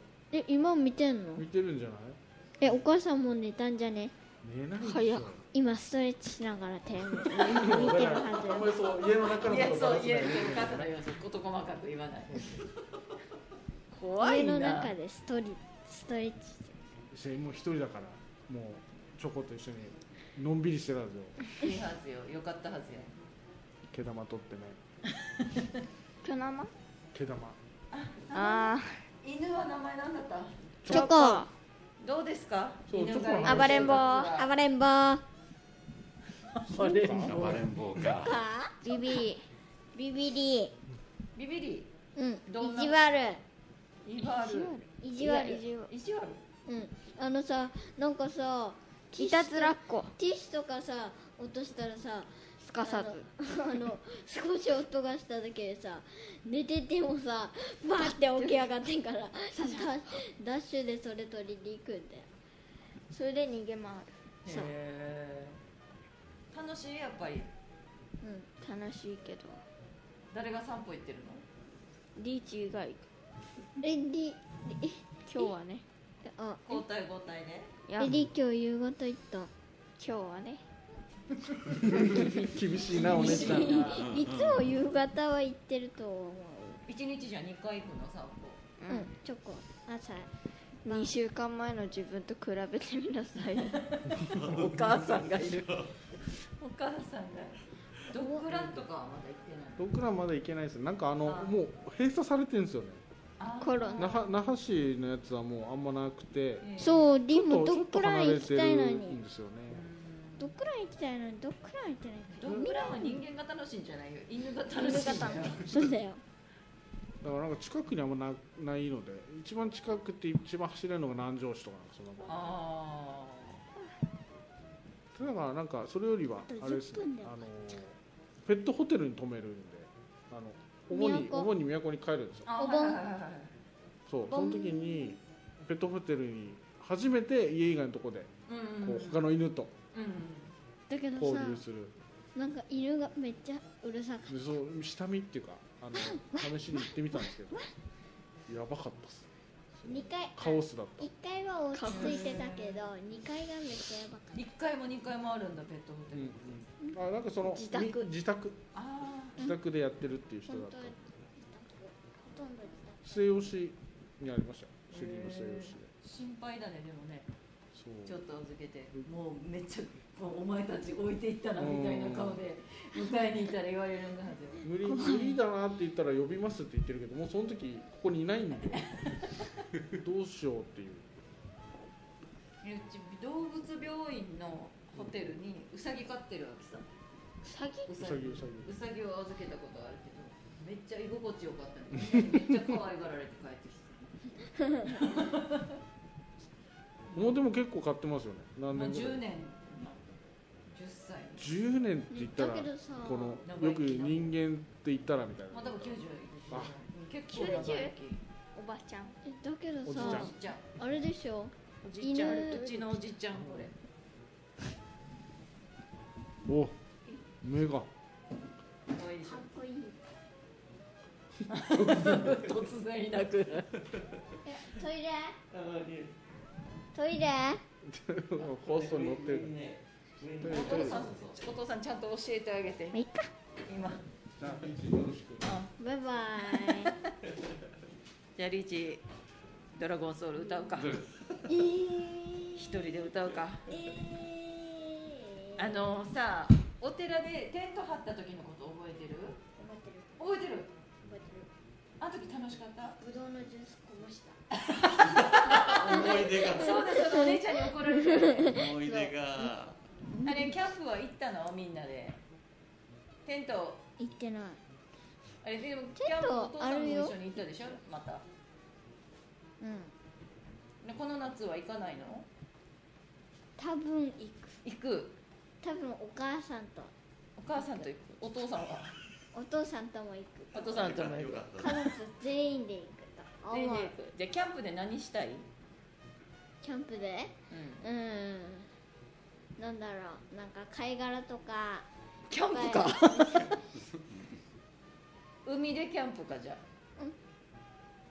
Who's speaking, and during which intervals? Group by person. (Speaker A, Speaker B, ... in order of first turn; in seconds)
Speaker A: 0.3-1.4, 2.6-4.1, 5.5-9.3, 14.2-16.8, 30.9-31.4, 33.6-35.2, 38.1-39.2, 39.9-40.7, 42.1-43.4, 45.0-45.7, 46.7-62.3, 68.2-68.5, 73.8-75.5, 76.2-76.8, 78.0-79.5, 83.0-86.8, 88.9-90.3, 90.8-91.1, 98.1-98.4, 106.8-109.2, 110.4-113.2, 115.6-116.2, 126.5-127.4, 130.9-131.5, 132.5-133.0, 134.3-135.2, 140.9-141.6, 142.3-144.3, 146.0-147.7, 149.8-154.5, 160.5-163.0, 174.8-175.4, 194.7-195.1, 202.1-203.4, 209.2-212.9, 219.2-220.0, 224.4-225.4, 226.9-227.6, 232.9-233.3, 235.8-236.9, 241.5-242.6, 243.7-245.9, 249.6-250.2, 251.0-251.5, 253.0-254.4, 255.7-258.6, 260.1-260.5, 264.0-264.6, 266.0-267.1, 269.6-269.9, 273.6-274.6, 275.6-276.9, 279.3-280.9, 281.5-283.9, 286.6-288.7, 289.6-291.9, 292.5-293.6
Speaker B: 1.4-2.2, 4.4-5.4, 7.3-10.9, 12.3-12.7, 17.1-21.4, 23.9-24.8, 27.1-27.6, 30.8-31.1, 32.9-34.1, 36.6-37.6, 81.8-84.0, 99.8-103.0, 104.0-109.9, 117.2-122.6, 125.1-132.6, 134.1-138.3, 138.8-139.7, 141.2-141.9, 144.3-147.7, 148.5-151.1, 156.1-158.6, 159.4-160.9, 163.0-165.9, 167.7-168.2, 171.6-172.4, 174.6-178.9, 179.8-181.1, 188.0-188.7, 192.0-192.6, 197.1-199.2, 201.4-206.7, 209.8-210.3, 216.4-216.7, 217.4-217.9, 221.7-222.3, 227.8-229.5, 230.4-231.1, 234.3-235.5
Speaker C: 4.8-5.3, 26.2-26.7, 28.3-29.0, 30.9-31.5, 33.4-34.3, 38.8-39.5, 44.4-45.9, 49.1-50.1, 52.6-53.2, 58.3-58.7, 59.5-60.1, 63.1-64.6, 68.6-69.6, 72.2-73.0, 75.3-75.8, 77.9-78.2, 80.0-80.6, 88.8-89.1, 90.8-93.8, 103.6-104.2, 114.7-115.8, 151.7-152.3, 157.5-158.1, 187.4-187.9, 207.3-207.9, 208.5-209.2
Speaker D: 9.3-12.6, 13.9-14.9, 21.6-23.1, 25.4-25.7, 27.9-30.6, 32.0-34.5, 36.4-37.4, 41.4-41.9, 42.5-43.0, 44.0-44.8, 45.9-46.4, 64.4-65.6, 66.5-67.5, 70.3-71.4, 76.7-77.7, 81.4-84.1, 86.9-88.6, 93.7-95.7, 96.6-97.5, 98.0-99.9, 101.2-101.5, 103.4-104.1, 106.6-107.0, 109.7-110.5, 112.3-115.7, 122.2-123.6, 132.5-133.6, 138.5-139.3, 139.9-140.5, 151.9-152.9, 154.3-156.6, 158.7-159.4, 164.9-167.3, 168.0-174.6, 178.8-179.3, 182.6-186.9, 187.9-194.1, 194.8-195.8, 198.7-200.1, 200.7-201.5, 203.4-204.3, 205.5-208.2, 209.9-210.6, 211.8-213.7, 218.9-219.5, 221.5-223.7, 230.4-233.0, 233.7-234.0, 235.4-235.7, 236.5-237.1, 238.3-239.0, 239.7-241.0, 242.5-243.7, 245.6-249.4, 250.2-250.7, 252.0-253.0, 254.5-258.6, 260.2-262.2, 263.2-263.8, 265.4-268.2, 270.8-272.3, 274.6-275.1, 277.4-279.0, 280.5-281.4, 283.5-285.4, 287.5-287.9, 292.3-293.6, 295.4-296.6
Speaker E: 37.2-38.4, 84.0-84.6, 94.3-95.9, 225.5-226.2, 228.4-231.3, 240.7-241.4, 255.1-257.1, 258.3-259.8, 280.7-281.9